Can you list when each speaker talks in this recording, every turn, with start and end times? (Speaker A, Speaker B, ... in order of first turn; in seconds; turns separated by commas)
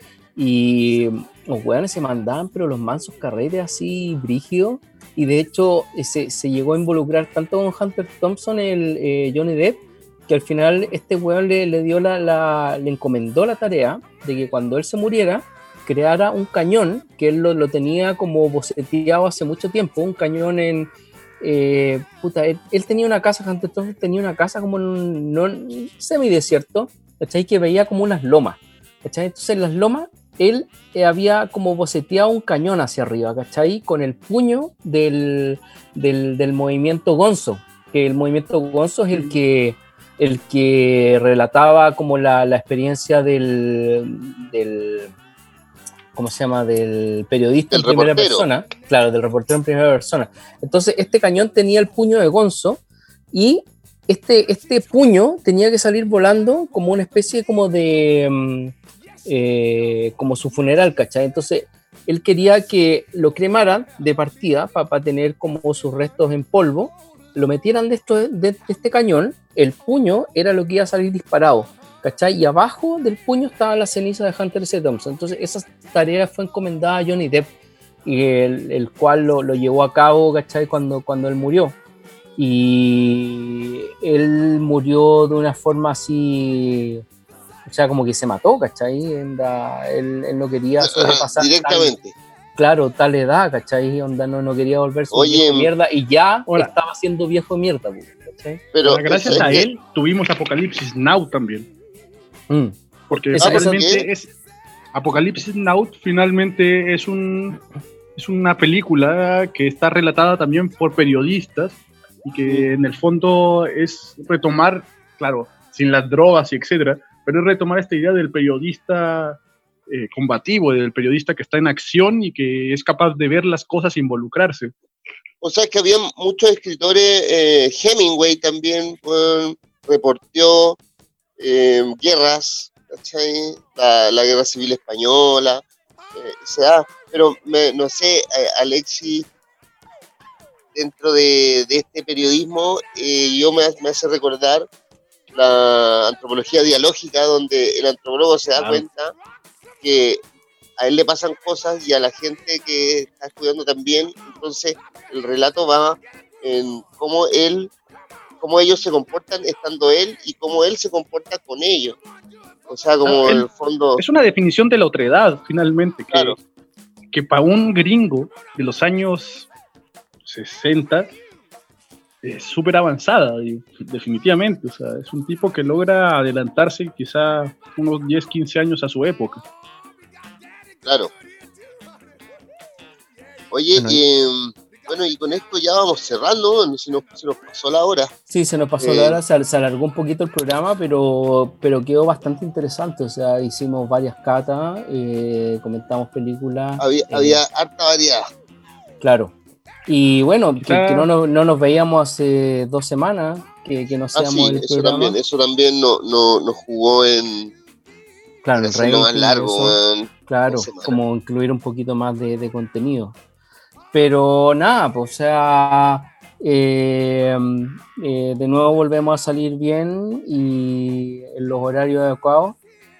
Speaker A: 0.3-45.1, Speaker A: 46.1-58.7, Speaker B: 47.7-48.5, Speaker A: 59.2-77.5, Speaker A: 78.0-81.8, Speaker A: 82.4-87.0, Speaker A: 87.7-91.9, Speaker B: 90.8-92.1, Speaker A: 92.5-98.6, Speaker B: 95.1-95.7, Speaker B: 98.7-99.6, Speaker C: 98.8-101.7, Speaker A: 102.5-102.7, Speaker C: 103.1-104.3, Speaker A: 103.3-103.8, Speaker B: 103.4-104.0, Speaker C: 104.9-107.6, Speaker C: 108.2-124.7, Speaker B: 125.4-130.8, Speaker B: 131.4-135.6, Speaker B: 136.1-139.3, Speaker B: 140.7-144.7, Speaker B: 145.3-149.1, Speaker C: 148.5-148.8, Speaker B: 149.8-150.2, Speaker B: 150.8-157.7, Speaker B: 158.4-162.0, Speaker B: 162.7-164.0, Speaker C: 163.0-163.4, Speaker C: 164.0-166.4, Speaker B: 166.1-166.4, Speaker C: 167.1-169.5, Speaker C: 170.2-171.1, Speaker C: 172.2-179.4, Speaker B: 180.8-181.1, Speaker B: 183.5-188.1, Speaker A: 183.7-184.0, Speaker A: 188.3-197.4, Speaker B: 188.8-189.2, Speaker B: 196.8-198.3, Speaker A: 199.0-199.3, Speaker A: 199.9-205.2, Speaker C: 200.6-201.1, Speaker B: 204.1-207.5, Speaker A: 208.4-213.1, Speaker B: 208.6-211.0, Speaker A: 213.9-222.6